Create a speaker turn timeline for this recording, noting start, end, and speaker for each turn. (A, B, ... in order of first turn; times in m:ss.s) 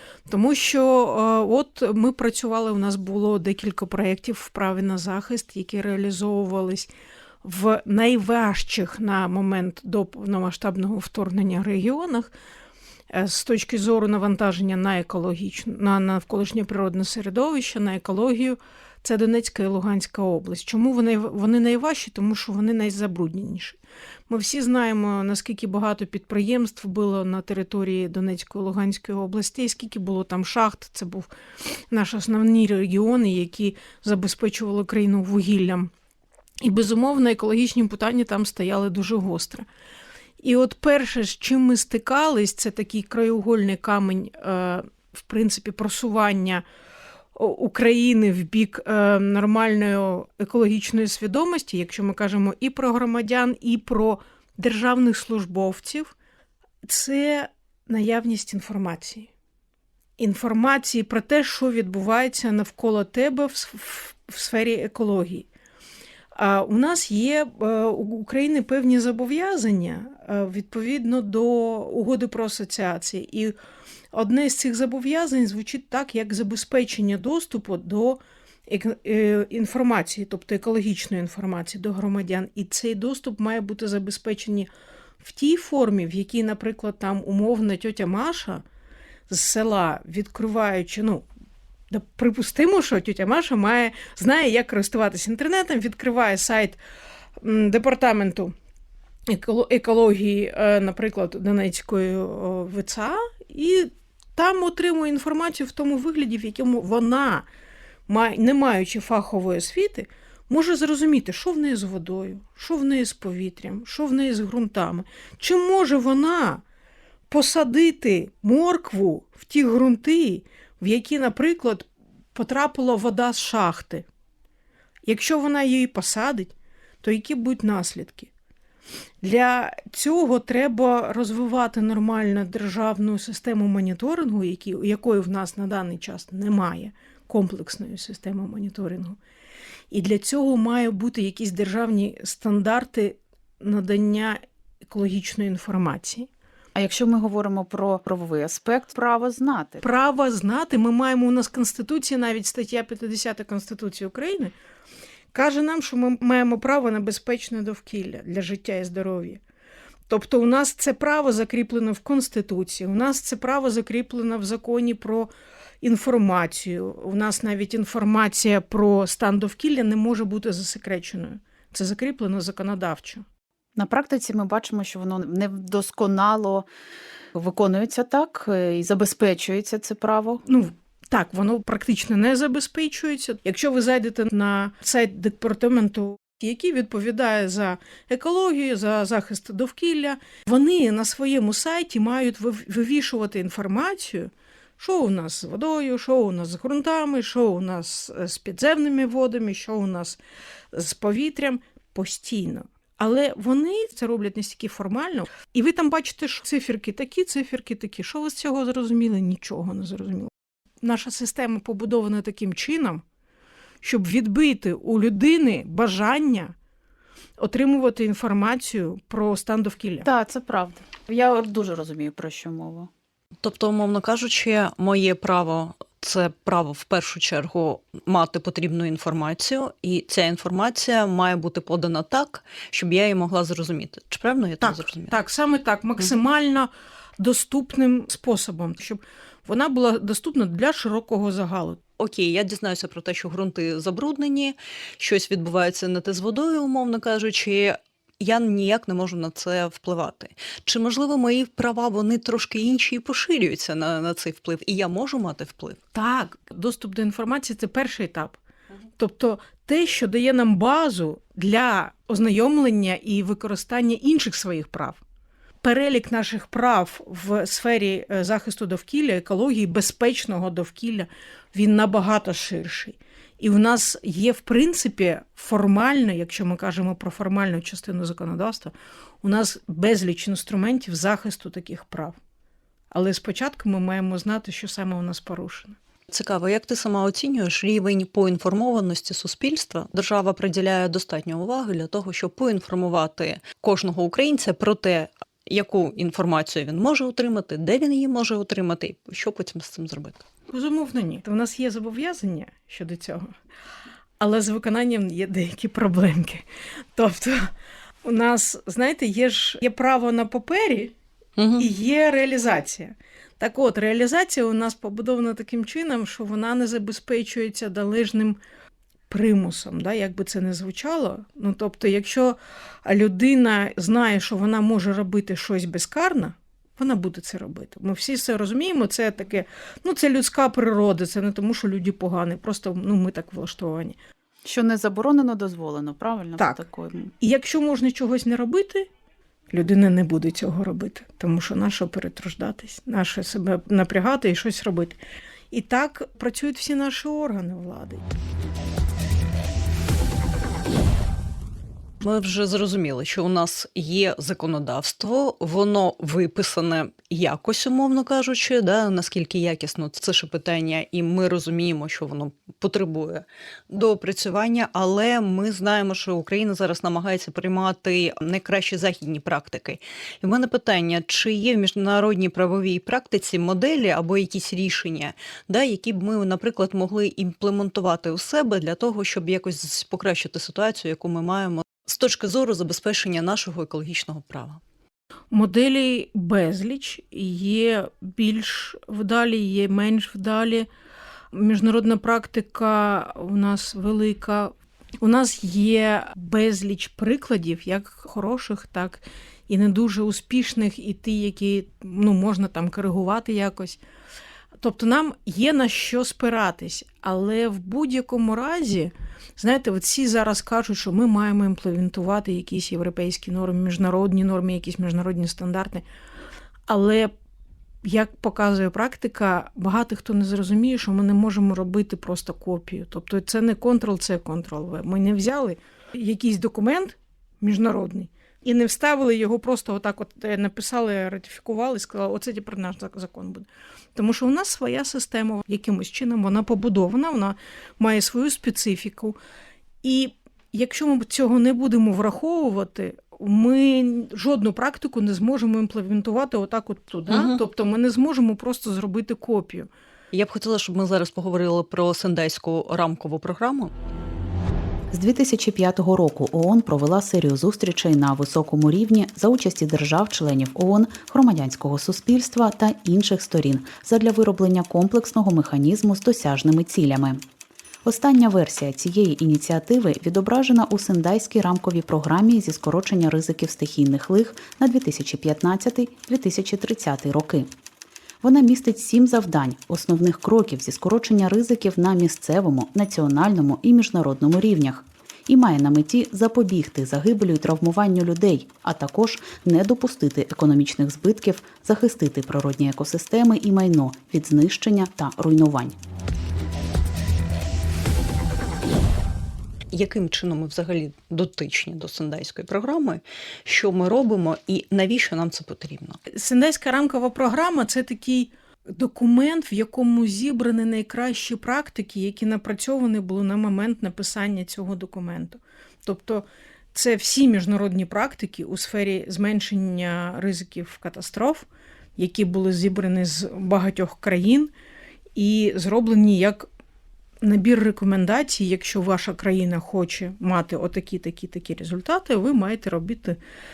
0:00.3-0:06.9 A
0:07.4-0:12.3 A
0:13.1-0:23.8 A
0:24.3-0:31.3 A
0:31.9-0:35.9 A
0:36.6-0:39.7 A
0:40.4-0:46.6 A
0:47.4-0:56.1 A
0:56.8-0:59.3 A
1:00.2-1:05.5 A
1:06.4-1:13.6 A
1:14.1-1:24.7 A
1:25.2-1:28.6 A
1:29.3-1:31.3 A
1:31.9-1:36.8 A
1:37.4-1:38.5 A
1:39.3-1:47.5 A
1:48.1-1:56.6 A
1:57.3-2:04.0 A
2:05.0-2:08.3 A
2:09.2-2:19.2 A
2:19.9-2:26.3 A
2:26.8-2:29.8 B
2:29.8-2:34.5 A
2:35.3-2:39.4 A
2:40.1-2:45.3 A
2:45.8-2:53.2 A
2:53.8-2:56.7 B
2:57.4-3:00.4 B
3:00.5-3:20.2 A
3:20.7-3:30.3 A
3:30.8-3:33.0 A
3:33.8-3:36.5 A
3:37.4-3:40.1 A
3:40.0-3:42.9 B
3:43.4-3:55.2 C
3:54.6-4:01.8 A
4:02.0-4:15.8 C
4:15.9-4:18.4 A
4:19.0-4:25.0 A
4:25.6-4:42.2 A
4:42.9-4:45.8 A
4:46.1-5:00.3 C
5:00.5-5:03.3 A
5:04.2-5:06.4 A
5:07.0-5:07.5 A
5:08.0-5:10.9 A
5:11.4-5:11.6 C
5:11.6-5:18.4 A
5:19.1-5:34.0 A
5:34.5-5:37.1 B
5:36.4-5:36.6 A
5:37.2-5:38.9 A
5:39.5-5:45.0 A
5:45.5-5:48.0 A
5:52.0-6:24.6 C
6:25.3-6:30.7 A
6:31.3-6:43.8 A
6:44.6-6:55.8 A
6:56.7-6:57.1 A
6:57.8-7:19.2 A
7:19.8-7:29.7 A
7:27.1-7:27.4 C
7:30.1-7:33.7 C
7:34.9-7:47.2 B
7:47.8-7:57.5 B
7:58.2-8:15.8 B
8:19.7-8:26.0 C
8:26.1-8:44.5 A
8:45.2-8:46.5 A
8:47.2-8:53.2 A